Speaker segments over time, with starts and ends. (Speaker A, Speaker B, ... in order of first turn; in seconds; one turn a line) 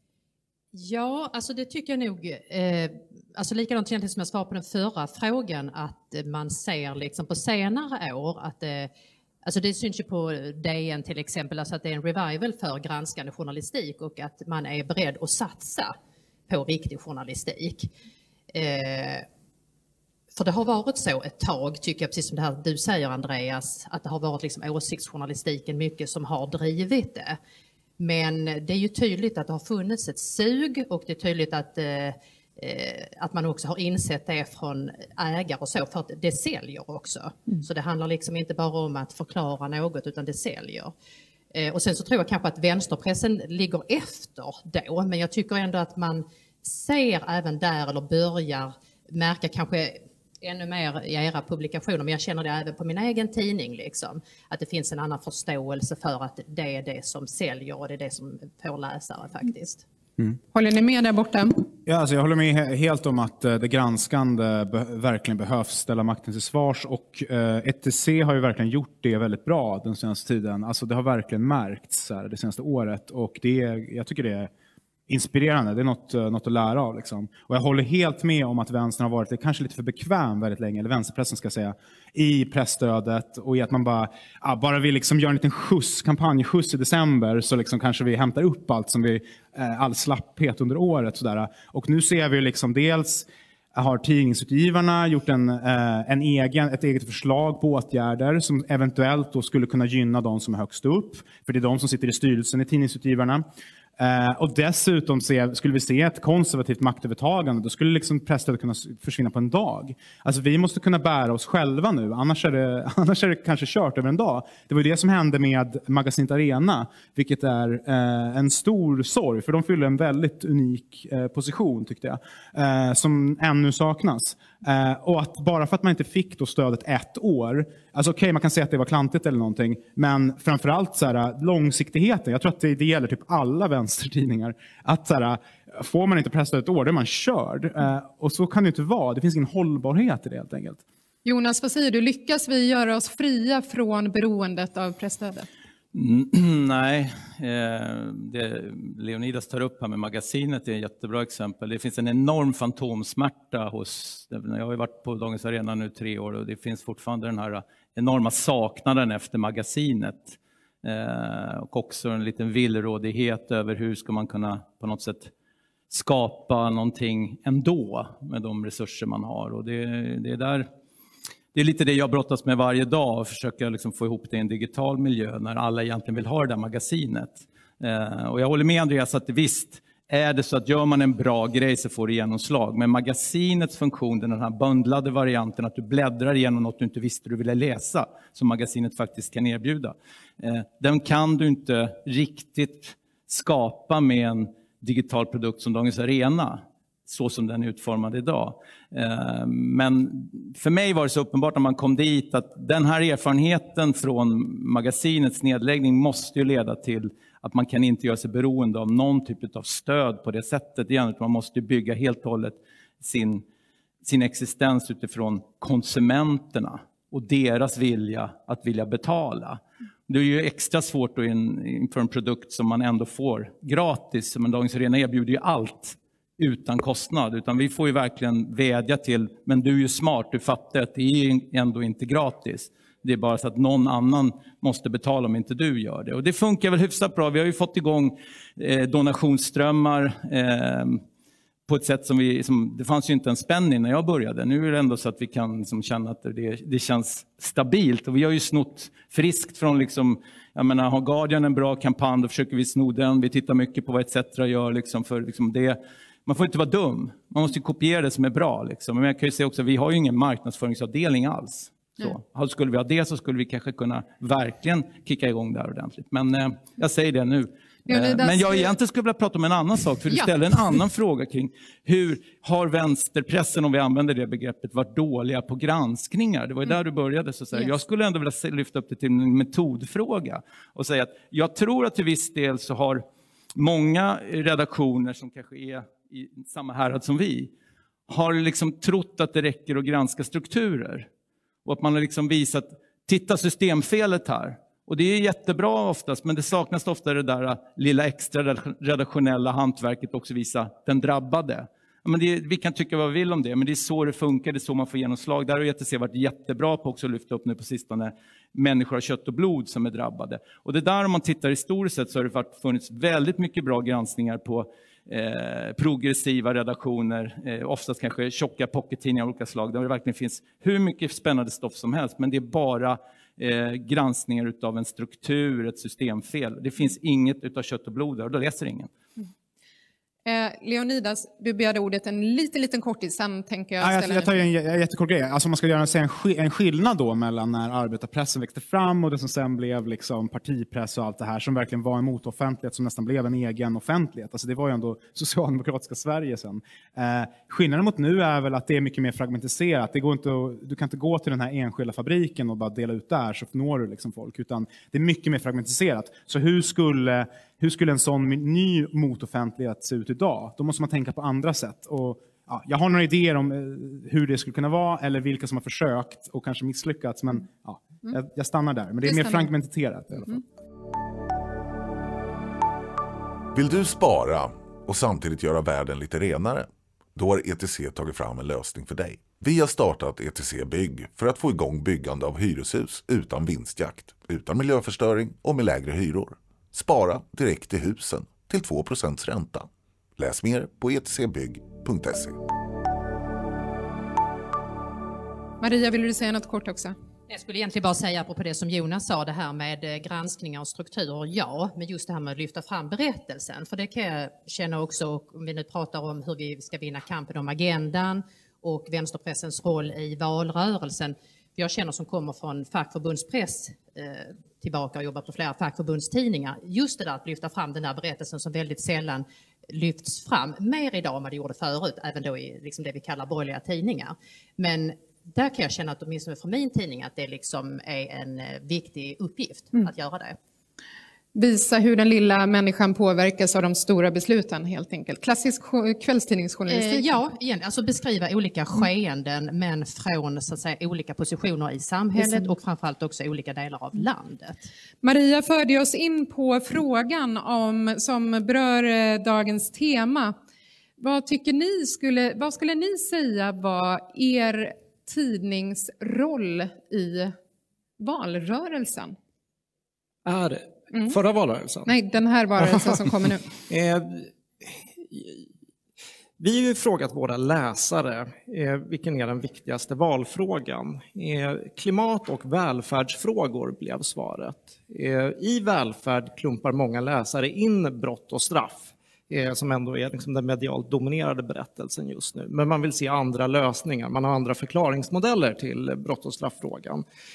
Speaker A: 0.7-8.9
Speaker A: 9.4-15.9
Speaker A: 16.5-17.9
Speaker A: 18.5-19.2
Speaker A: 20.3-27.4
Speaker A: 28.0-40.9
Speaker A: 41.5-59.8
Speaker B: 60.5-61.6
Speaker C: 61.8-74.5
Speaker C: 75.1-103.4
Speaker C: 104.0-140.8
Speaker B: 141.2-145.5
Speaker D: 145.9-165.3
Speaker D: 165.9-170.7
Speaker D: 171.5-213.4
Speaker D: 214.0-241.0
Speaker D: 241.7-283.0
Speaker B: 267.9-268.7
Speaker D: 283.5-287.5
Speaker D: 288.1-291.1
Speaker D: 291.6-328.9
Speaker B: 330.2-334.3
Speaker C: 333.8-370.4
Speaker B: 369.0-369.5
Speaker E: 373.5-392.4
Speaker B: 395.6-396.9
Speaker A: 397.3-430.4
Speaker B: 431.3-437.1
Speaker A: 436.7-444.7
Speaker B: 442.2-442.5
Speaker B: 445.0-450.3
Speaker B: 451.0-457.3
Speaker B: 458.0-459.1
Speaker F: 460.2-461.9
Speaker B: 461.9-463.5
Speaker F: 463.7-465.5
Speaker F: 466.4-487.0